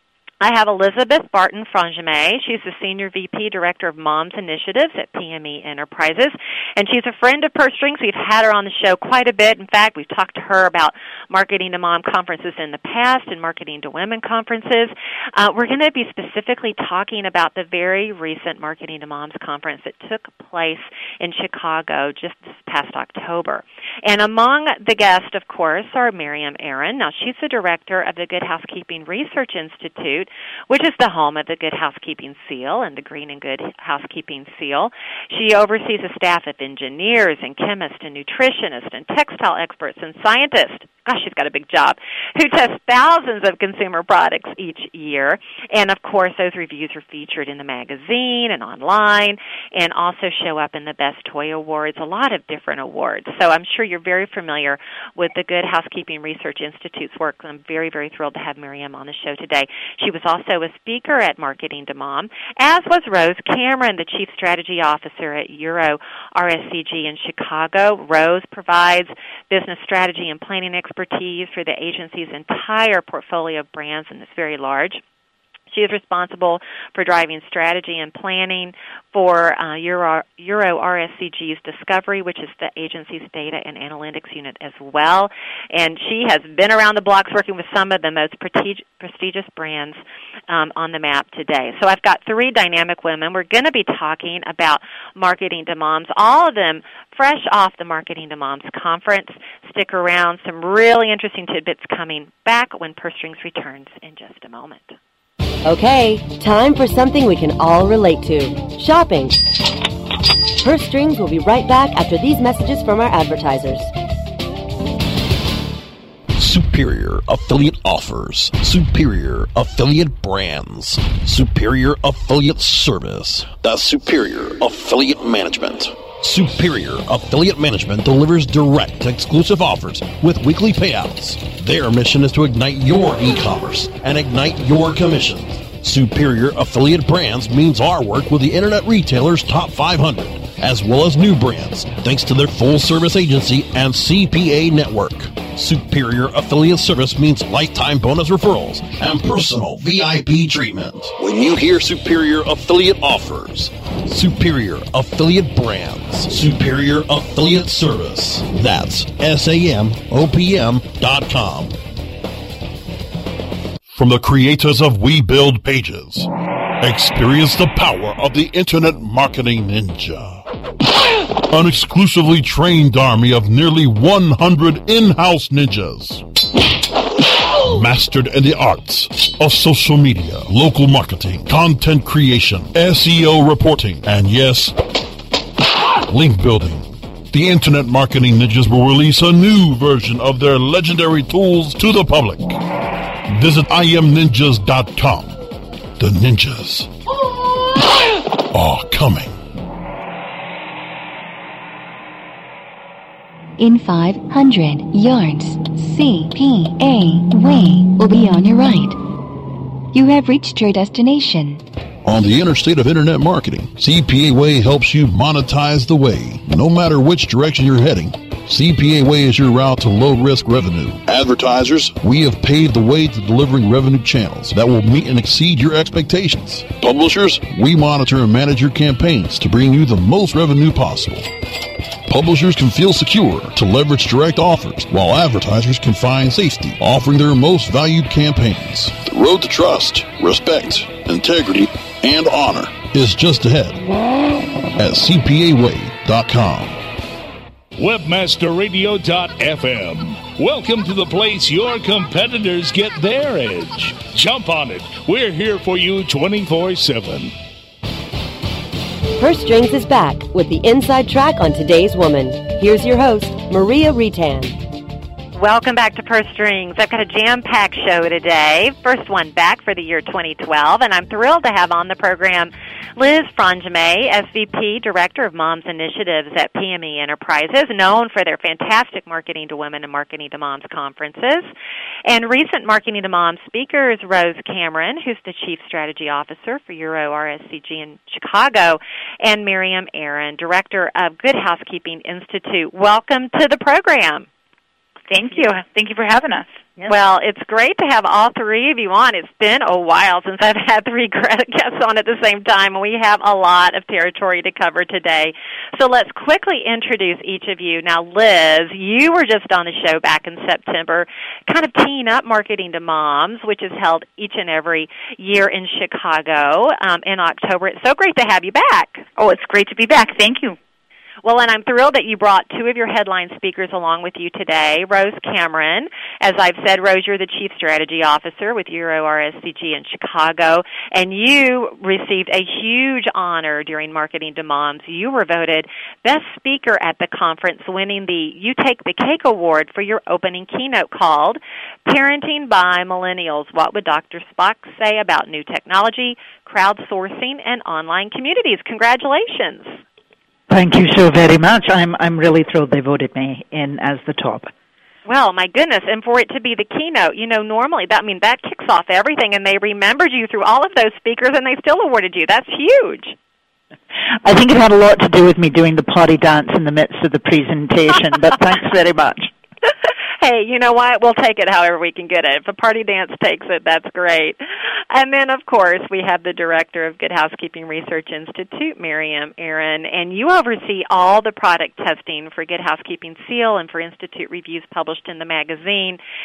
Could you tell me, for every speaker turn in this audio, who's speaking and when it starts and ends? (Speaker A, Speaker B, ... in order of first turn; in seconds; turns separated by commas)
Speaker A: 0.4-75.0, Speaker A: 75.7-105.0, Speaker B: 105.7-109.4, Speaker B: 110.6-113.9, Speaker C: 116.3-161.8, Speaker C: 163.9-166.3, Speaker C: 166.8-170.4, Speaker C: 171.5-176.2, Speaker C: 177.6-184.8, Speaker C: 186.1-192.6, Speaker C: 193.3-195.4, Speaker C: 196.0-196.9, Speaker C: 198.5-199.3, Speaker D: 203.6-209.0, Speaker D: 209.9-211.6, Speaker C: 212.1-231.3, Speaker C: 232.1-243.8, Speaker C: 244.8-246.8, Speaker E: 247.8-257.3, Speaker B: 259.2-264.6, Speaker A: 265.4-281.5, Speaker A: 282.1-294.3, Speaker F: 295.1-296.5, Speaker A: 296.9-319.1, Speaker F: 319.2-320.6, Speaker A: 321.2-349.8, Speaker G: 350.5-354.5, Speaker A: 355.1-363.1, Speaker G: 364.2-369.3, Speaker A: 370.2-374.4, Speaker A: 374.9-386.0